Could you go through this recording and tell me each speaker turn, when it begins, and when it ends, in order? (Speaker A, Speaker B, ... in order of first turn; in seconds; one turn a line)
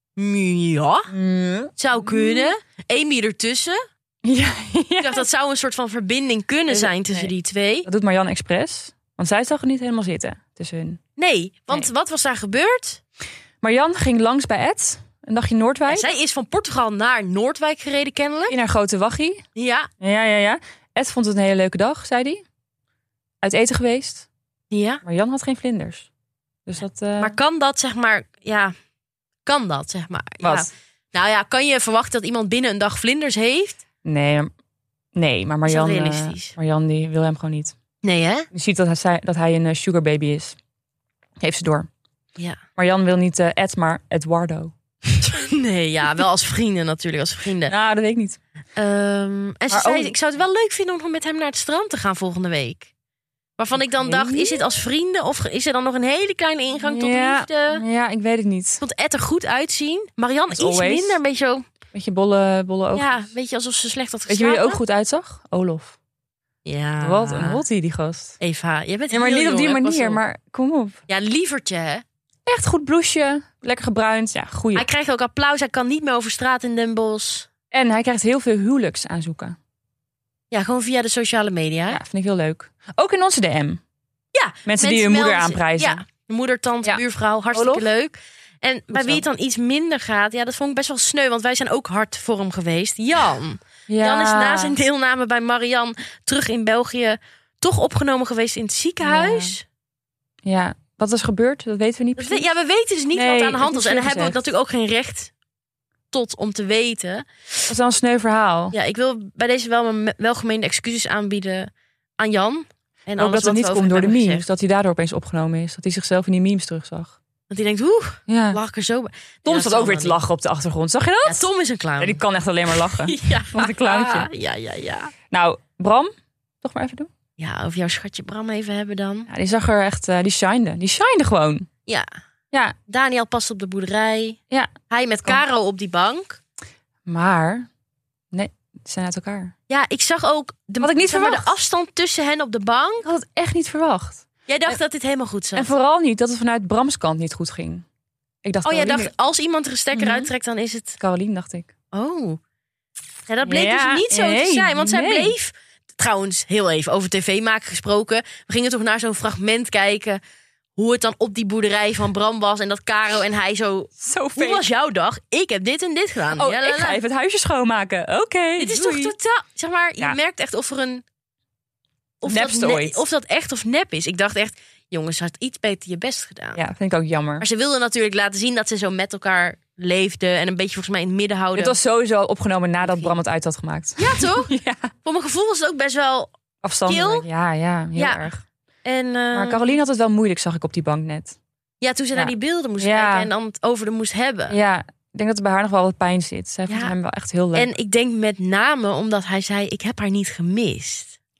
Speaker A: 0.2-1.1
Speaker B: 1.1-2.5
Speaker A: 1.8-3.8
Speaker B: 4.2-5.2
Speaker A: 5.0-7.9
Speaker B: 6.7-7.3
Speaker B: 7.9-11.0
Speaker A: 11.2-13.0
Speaker B: 13.6-16.1
Speaker A: 15.9-18.6
Speaker B: 18.5-19.4
Speaker A: 19.6-19.9
Speaker B: 20.0-22.4
Speaker B: 23.4-24.3
Speaker A: 24.7-25.0
Speaker B: 25.0-26.1
Speaker B: 26.7-27.4
Speaker A: 27.2-28.7
Speaker A: 29.4-33.8
Speaker B: 30.4-30.7
Speaker B: 34.0-34.5
Speaker B: 35.1-37.8
Speaker A: 35.6-36.5
Speaker A: 38.0-38.5
Speaker B: 38.5-40.6
Speaker B: 41.4-41.9
Speaker B: 42.8-44.7
Speaker A: 45.2-47.7
Speaker B: 47.7-48.4
Speaker A: 48.8-52.9
Speaker B: 49.7-50.1
Speaker A: 53.6-57.8
Speaker B: 54.0-54.6
Speaker B: 56.8-58.8
Speaker A: 58.8-61.7
Speaker B: 60.5-61.2
Speaker B: 61.9-63.2
Speaker A: 62.9-64.8
Speaker B: 64.3-66.0
Speaker A: 66.7-67.6
Speaker B: 67.0-68.4
Speaker A: 68.4-70.2
Speaker B: 69.1-71.0
Speaker A: 71.1-72.0
Speaker B: 72.5-74.9
Speaker A: 74.7-77.5
Speaker B: 77.7-79.6
Speaker A: 80.5-82.0
Speaker B: 81.9-83.8
Speaker A: 84.3-99.7
Speaker B: 84.7-86.0
Speaker B: 87.5-87.9
Speaker B: 88.9-89.2
Speaker B: 93.9-94.8
Speaker B: 99.0-99.5
Speaker B: 100.5-102.5
Speaker A: 102.2-105.3
Speaker B: 103.1-104.5
Speaker A: 106.1-107.3
Speaker B: 107.7-108.8
Speaker A: 108.7-114.5
Speaker B: 113.2-117.2
Speaker A: 117.5-120.2
Speaker B: 118.3-118.6
Speaker B: 119.5-121.5
Speaker A: 121.2-122.2
Speaker B: 122.0-124.3
Speaker A: 122.7-125.1
Speaker B: 125.3-126.1
Speaker B: 126.6-127.1
Speaker A: 127.4-129.3
Speaker B: 129.3-131.7
Speaker A: 132.9-134.4
Speaker A: 134.9-136.4
Speaker B: 137.1-137.7
Speaker B: 138.3-139.5
Speaker A: 139.7-143.1
Speaker B: 140.8-141.5
Speaker B: 143.1-144.8
Speaker A: 144.5-145.7
Speaker B: 145.6-147.8
Speaker B: 148.4-149.1
Speaker A: 148.7-151.0
Speaker B: 149.9-150.3
Speaker B: 151.0-151.7
Speaker A: 151.9-152.4
Speaker A: 153.3-160.2
Speaker B: 153.4-155.3
Speaker A: 160.8-167.0
Speaker B: 164.0-164.7
Speaker B: 166.3-169.2
Speaker A: 168.6-171.0
Speaker A: 172.2-176.6
Speaker B: 172.2-173.0
Speaker B: 176.6-177.5
Speaker A: 177.4-181.8
Speaker B: 181.6-184.9
Speaker A: 182.8-183.1
Speaker A: 184.0-184.5
Speaker A: 185.0-186.3
Speaker B: 186.6-188.4
Speaker A: 186.9-187.3
Speaker A: 188.0-188.3
Speaker A: 188.8-189.7
Speaker B: 189.3-191.4
Speaker A: 191.8-194.6
Speaker B: 192.2-193.3
Speaker B: 194.5-197.7
Speaker A: 196.7-196.9
Speaker A: 197.5-201.2